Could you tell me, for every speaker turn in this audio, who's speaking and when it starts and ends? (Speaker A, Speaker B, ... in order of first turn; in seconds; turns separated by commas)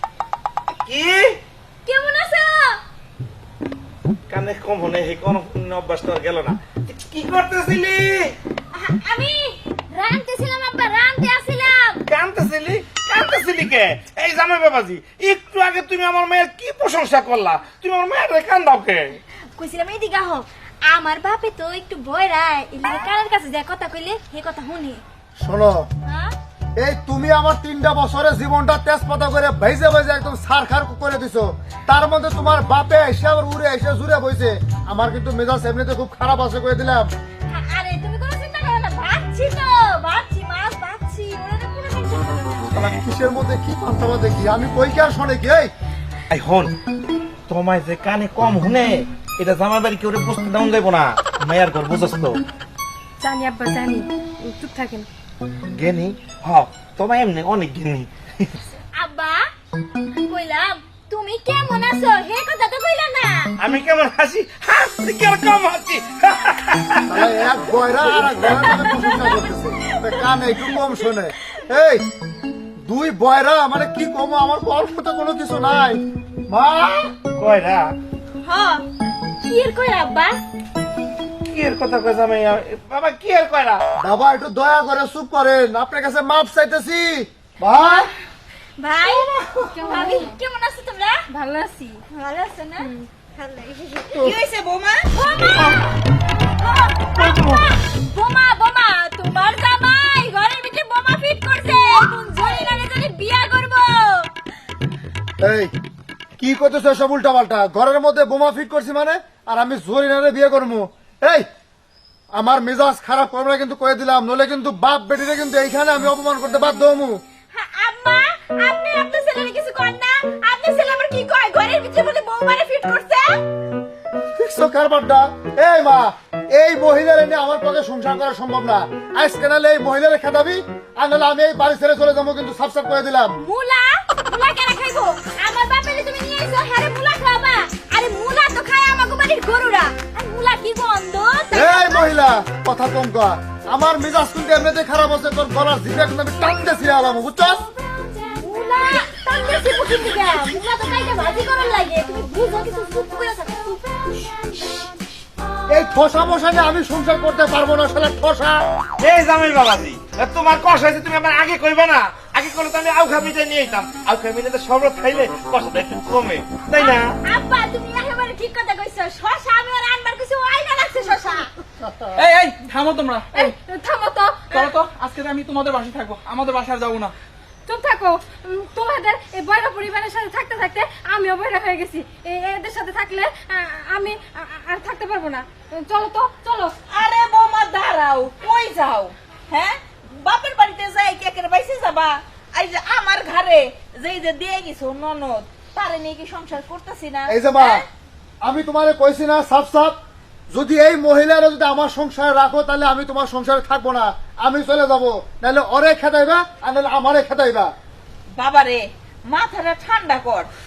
Speaker A: 0.8-1.4, Speaker B: 1.9-2.8, Speaker A: 4.3-8.4, Speaker B: 8.7-12.0, Speaker A: 12.1-19.2, Speaker B: 19.6-25.0, Speaker C: 25.4-25.9, Speaker B: 26.1-26.3, Speaker C: 26.8-37.1, Speaker B: 37.5-42.9, Speaker C: 42.7-45.7, Speaker A: 46.3-46.7, Speaker A: 47.5-52.4, Speaker D: 53.2-55.1, Speaker A: 55.7-58.5, Speaker B: 58.9-59.5, Speaker B: 60.2-63.5, Speaker A: 63.6-67.2, Speaker C: 67.1-72.1, Speaker B: 68.3-69.4, Speaker C: 72.8-77.1, Speaker A: 77.3-77.9, Speaker B: 78.4-78.8, Speaker B: 79.4-80.4, Speaker A: 81.5-83.8, Speaker C: 84.0-88.1, Speaker B: 88.8-91.2, Speaker E: 89.0-89.7, Speaker D: 89.7-90.4, Speaker D: 91.3-92.0, Speaker E: 92.1-92.9, Speaker B: 93.4-94.1, Speaker E: 94.1-95.0, Speaker B: 95.1-95.9, Speaker B: 96.6-104.3, Speaker A: 97.2-97.6, Speaker C: 105.4-105.7, Speaker C: 106.4-111.5, Speaker C: 112.3-117.2, Speaker B: 117.5-123.4, Speaker C: 124.3-133.4, Speaker B: 133.4-142.1, Speaker C: 141.5-147.7, Speaker B: 148.3-154.5, Speaker C: 155.7-158.6, Speaker A: 159.0-167.1, Speaker B: 166.8-171.5, Speaker E: 170.9-171.4, Speaker F: 172.1-173.5, Speaker D: 173.3-174.6, Speaker F: 174.5-177.1, Speaker D: 177.7-186.8, Speaker E: 186.9-197.8, Speaker C: 197.3-197.8, Speaker C: 198.4-200.0, Speaker C: 200.5-207.7, Speaker E: 208.4-210.5